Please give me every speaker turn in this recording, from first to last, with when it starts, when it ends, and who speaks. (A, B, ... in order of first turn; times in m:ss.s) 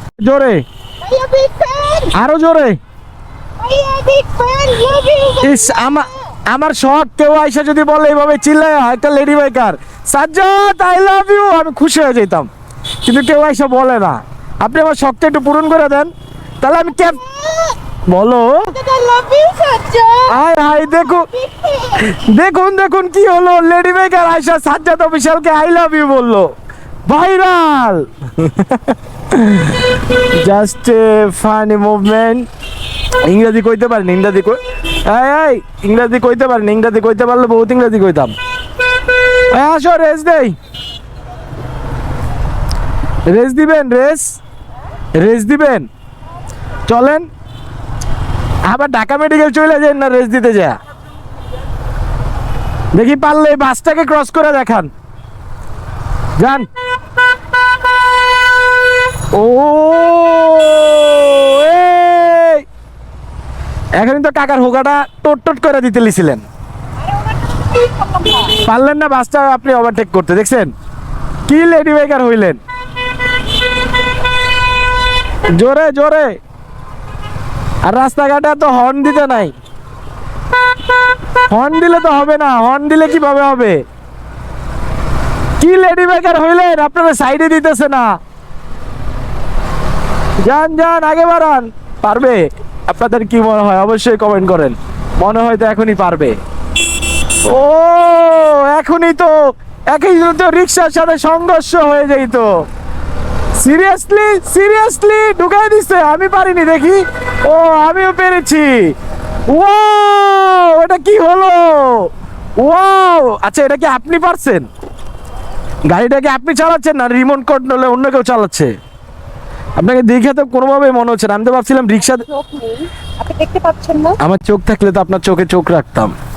0:00.2-0:00.6 A
0:01.0-0:02.1 B
0:02.1-0:02.8 A
0:03.6-0:06.2 B
0:05.4-0:12.5 A
0:13.0-0:17.2 A
0:16.8-0:17.8 B
0:18.1-0:18.7 A
0:18.7-0:22.1 B
0:20.3-0:21.3 A
0:22.0-0:26.5 A
0:27.1-0:32.5 A
0:33.2-0:38.3 A
0:39.5-0:40.5 A
0:43.3-0:44.4 A
0:45.1-0:45.9 A
0:46.9-0:47.3 A
0:48.6-0:50.8 A
0:52.9-0:54.9 A
0:56.4-0:56.7 A
0:59.3-1:02.6 A
1:04.0-1:06.4 A
1:07.0-1:08.6 B
1:08.6-1:10.7 A
1:11.5-1:12.6 A
1:15.5-1:16.4 A
1:17.8-1:19.5 A
1:21.5-1:23.8 A
1:25.6-1:28.2 A
1:30.4-1:36.4 A
1:37.4-1:39.3 A
1:39.9-1:42.5 A
1:43.6-1:48.9 A
1:49.5-1:54.7 A
1:55.9-1:58.7 A
1:59.8-2:02.2 A
2:02.0-2:04.2 B
2:04.2-2:06.1 A